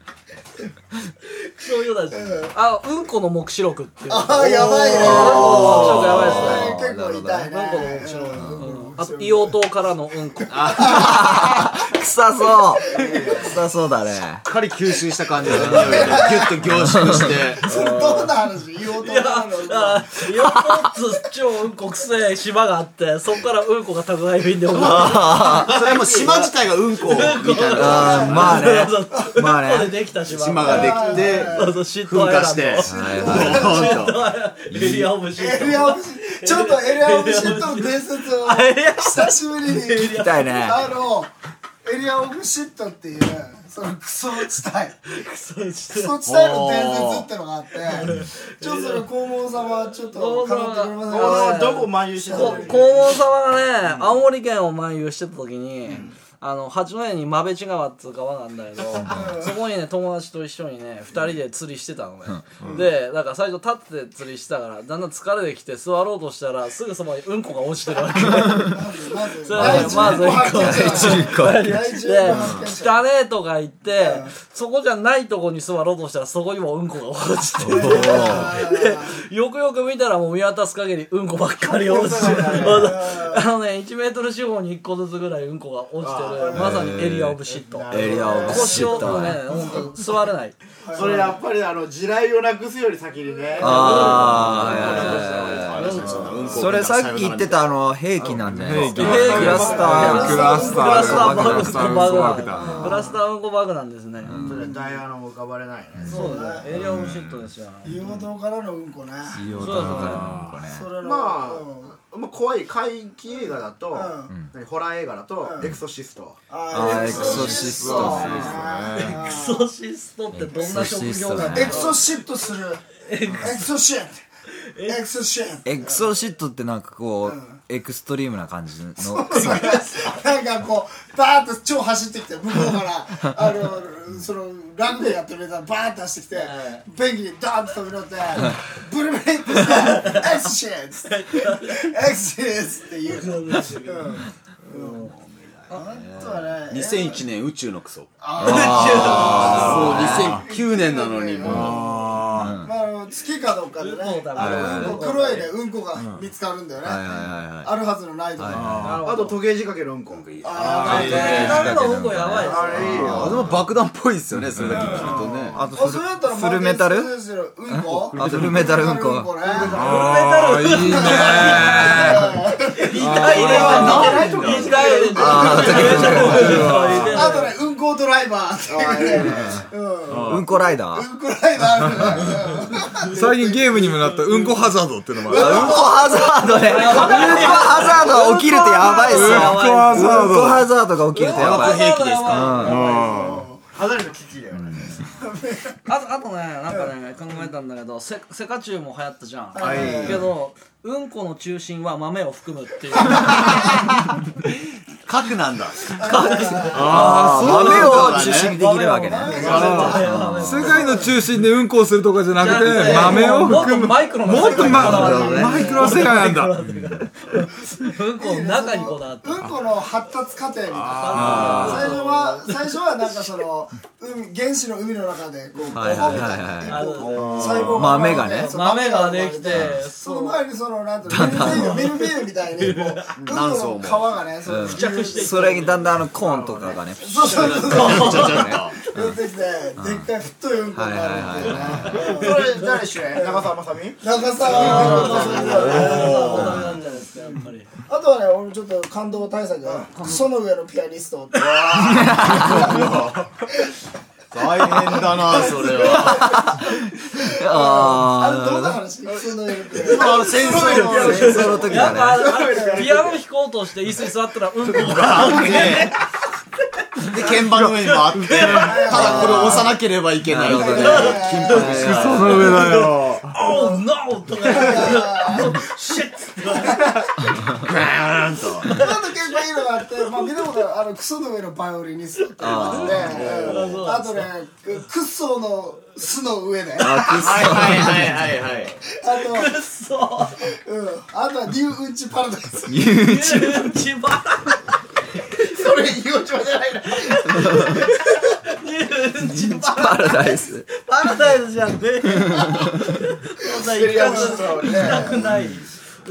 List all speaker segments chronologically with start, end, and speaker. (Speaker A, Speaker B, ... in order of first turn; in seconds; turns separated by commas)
Speaker A: 1.6-6.8, Speaker B: 2.1-2.5, Speaker B: 4.1-9.6, Speaker C: 4.6-6.2, Speaker D: 5.0-7.6, Speaker A: 7.5-11.2, Speaker D: 8.3-8.6, Speaker C: 10.5-11.2, Speaker B: 10.5-11.8, Speaker D: 10.7-14.4, Speaker B: 12.8-13.5, Speaker E: 12.9-13.6, Speaker C: 14.4-17.7, Speaker B: 15.6-16.6, Speaker D: 16.8-17.4, Speaker B: 17.6-20.2, Speaker F: 17.7-18.3, Speaker A: 19.0-25.7, Speaker D: 24.7-25.8, Speaker C: 24.8-28.6, Speaker E: 25.4-26.5, Speaker A: 27.0-40.6, Speaker D: 27.7-30.0, Speaker B: 27.9-28.3, Speaker C: 30.2-34.3, Speaker B: 30.6-31.8, Speaker D: 32.9-33.8, Speaker B: 32.9-34.0, Speaker D: 34.7-35.1, Speaker B: 35.3-41.3, Speaker D: 40.1-40.9, Speaker B: 41.8-45.0, Speaker A: 45.1-46.2, Speaker B: 45.9-53.1, Speaker C: 46.2-47.3, Speaker A: 47.8-49.1, Speaker A: 50.0-68.8, Speaker E: 51.1-53.1, Speaker E: 55.9-56.1, Speaker B: 59.1-59.5, Speaker B: 68.1-73.0, Speaker D: 68.3-68.8, Speaker A: 69.4-91.2, Speaker D: 69.5-71.8, Speaker C: 72.3-72.6, Speaker B: 74.0-74.3, Speaker D: 77.6-78.6, Speaker B: 77.7-79.1, Speaker E: 81.8-83.0, Speaker B: 82.0-83.5, Speaker E: 86.0-87.0, Speaker B: 86.5-86.8, Speaker D: 86.5-87.4, Speaker E: 87.5-89.2, Speaker D: 87.9-89.5, Speaker B: 88.2-88.7, Speaker B: 89.5-89.9, Speaker B: 90.8-91.4, Speaker E: 90.9-96.5, Speaker A: 93.6-96.5, Speaker D: 93.6-101.7, Speaker C: 94.0-97.7, Speaker F: 98.2-103.0, Speaker E: 98.8-100.7, Speaker A: 98.9-104.4, Speaker B: 99.4-101.6, Speaker B: 102.5-103.2, Speaker D: 104.2-104.7, Speaker E: 104.4-106.3, Speaker B: 104.5-104.8, Speaker D: 106.0-106.4, Speaker B: 106.0-106.7, Speaker A: 106.1-107.9, Speaker F: 106.7-107.3, Speaker B: 107.8-109.5, Speaker D: 109.3-110.9, Speaker A: 109.6-110.3, Speaker F: 109.6-110.6, Speaker B: 110.6-112.0, Speaker E: 111.0-116.4, Speaker B: 113.9-114.3, Speaker B: 115.4-115.7, Speaker B: 116.5-119.7, Speaker D: 116.7-118.6, Speaker A: 116.8-118.2, Speaker E: 117.1-117.5, Speaker F: 117.1-119.3, Speaker C: 118.2-118.5, Speaker A: 118.9-122.1, Speaker D: 120.3-121.9, Speaker B: 120.7-124.2, Speaker A: 123.0-123.6, Speaker A: 124.5-125.0, Speaker B: 124.9-126.1, Speaker D: 125.6-129.8, Speaker B: 127.2-127.6, Speaker B: 129.0-145.1, Speaker A: 136.3-136.9, Speaker A: 139.6-140.3, Speaker A: 141.1-141.9, Speaker A: 143.1-145.1, Speaker C: 145.2-148.1, Speaker B: 145.7-147.2, Speaker B: 148.2-158.8, Speaker D: 148.4-150.4, Speaker A: 148.4-149.8, Speaker C: 149.0-151.9, Speaker F: 150.1-150.4, Speaker F: 151.4-152.6, Speaker D: 152.3-152.7, Speaker A: 153.8-155.5, Speaker D: 154.3-155.1, Speaker F: 155.9-156.3, Speaker D: 156.8-157.7, Speaker D: 158.4-158.7, Speaker F: 158.5-159.1, Speaker A: 158.8-159.4, Speaker E: 159.0-160.3, Speaker C: 160.1-161.7, Speaker B: 160.4-161.6, Speaker F: 160.6-161.6, Speaker A: 160.8-163.0, Speaker D: 160.9-163.3, Speaker E: 162.4-163.4, Speaker B: 162.4-162.8, Speaker F: 162.8-163.4, Speaker C: 162.9-165.6, Speaker F: 164.5-165.2, Speaker B: 164.8-169.7, Speaker E: 165.1-165.6, Speaker D: 165.6-167.1, Speaker D: 167.7-169.3, Speaker C: 168.1-168.7, Speaker E: 169.4-170.1, Speaker A: 169.4-177.5, Speaker F: 169.7-172.3, Speaker B: 170.9-174.7, Speaker F: 172.9-174.2, Speaker E: 173.1-176.4, Speaker C: 173.3-174.9, Speaker D: 175.1-176.6, Speaker B: 175.4-184.0, Speaker C: 175.4-176.2, Speaker F: 176.1-177.3, Speaker E: 178.7-179.6, Speaker D: 179.3-179.6, Speaker F: 180.1-180.5, Speaker D: 180.3-181.1, Speaker F: 181.8-182.4, Speaker F: 183.1-185.9, Speaker B: 185.3-188.2, Speaker D: 185.3-192.9, Speaker A: 186.4-190.4, Speaker F: 189.0-190.7, Speaker A: 191.1-193.1, Speaker C: 191.2-192.7, Speaker F: 192.6-193.5, Speaker B: 192.7-193.6, Speaker E: 193.7-194.9, Speaker D: 194.5-195.0, Speaker B: 195.2-195.8, Speaker A: 195.9-203.8, Speaker B: 199.6-200.2, Speaker C: 199.6-200.3, Speaker D: 199.7-200.1, Speaker B: 203.1-203.6, Speaker C: 205.1-206.2, Speaker B: 205.9-207.0, Speaker A: 205.9-211.1, Speaker F: 206.7-208.2, Speaker D: 206.7-210.8, Speaker C: 206.8-208.6, Speaker B: 208.6-211.1, Speaker C: 209.3-210.1, Speaker F: 209.4-216.6, Speaker A: 212.4-219.5, Speaker B: 212.7-213.6, Speaker B: 214.4-216.0, Speaker D: 214.7-215.8, Speaker D: 216.6-217.1, Speaker B: 218.2-235.8, Speaker F: 220.7-222.0, Speaker A: 220.9-223.2, Speaker D: 221.3-221.7, Speaker D: 225.7-226.9, Speaker A: 225.8-230.4, Speaker C: 226.9-228.1, Speaker D: 227.7-228.6, Speaker D: 229.5-229.8, Speaker D: 231.1-231.9, Speaker A: 231.1-233.2, Speaker C: 233.2-234.2, Speaker D: 234.4-239.2, Speaker A: 234.6-235.9, Speaker E: 236.1-236.8, Speaker B: 237.0-243.5, Speaker C: 237.2-238.8, Speaker A: 237.7-238.5, Speaker D: 239.8-240.1, Speaker D: 240.7-242.0, Speaker C: 241.4-241.8, Speaker A: 241.9-242.7, Speaker E: 241.9-246.2, Speaker B: 244.0-246.8, Speaker A: 244.4-247.7, Speaker C: 244.5-246.7, Speaker B: 247.9-252.9, Speaker E: 249.6-249.9, Speaker C: 251.4-253.3, Speaker D: 251.8-252.8, Speaker C: 254.3-256.4, Speaker B: 254.7-261.6, Speaker D: 255.9-258.8, Speaker C: 259.7-261.7, Speaker E: 259.8-263.2, Speaker A: 259.9-265.9, Speaker D: 261.1-262.3, Speaker B: 262.5-263.0, Speaker C: 264.7-266.0, Speaker C: 267.0-272.7, Speaker A: 267.2-269.4, Speaker F: 267.4-268.6, Speaker B: 268.6-269.7, Speaker D: 268.9-269.7, Speaker D: 270.3-272.3, Speaker B: 270.4-271.9, Speaker A: 270.6-271.7, Speaker F: 271.7-273.4, Speaker A: 272.2-277.0, Speaker B: 273.5-273.8, Speaker B: 274.4-275.7, Speaker B: 276.4-277.3, Speaker C: 277.5-278.9, Speaker B: 278.7-287.9, Speaker A: 278.8-279.4, Speaker D: 282.4-283.4, Speaker C: 282.7-283.9, Speaker A: 282.8-284.3, Speaker D: 286.8-288.1, Speaker C: 287.0-288.8, Speaker B: 288.9-289.6, Speaker A: 289.1-290.5, Speaker B: 290.5-292.9, Speaker D: 292.7-293.7, Speaker A: 293.0-294.7, Speaker E: 295.3-297.8, Speaker A: 296.9-305.7, Speaker D: 297.4-297.8, Speaker D: 299.2-300.6, Speaker D: 302.1-302.9, Speaker E: 303.6-305.4, Speaker B: 303.9-305.2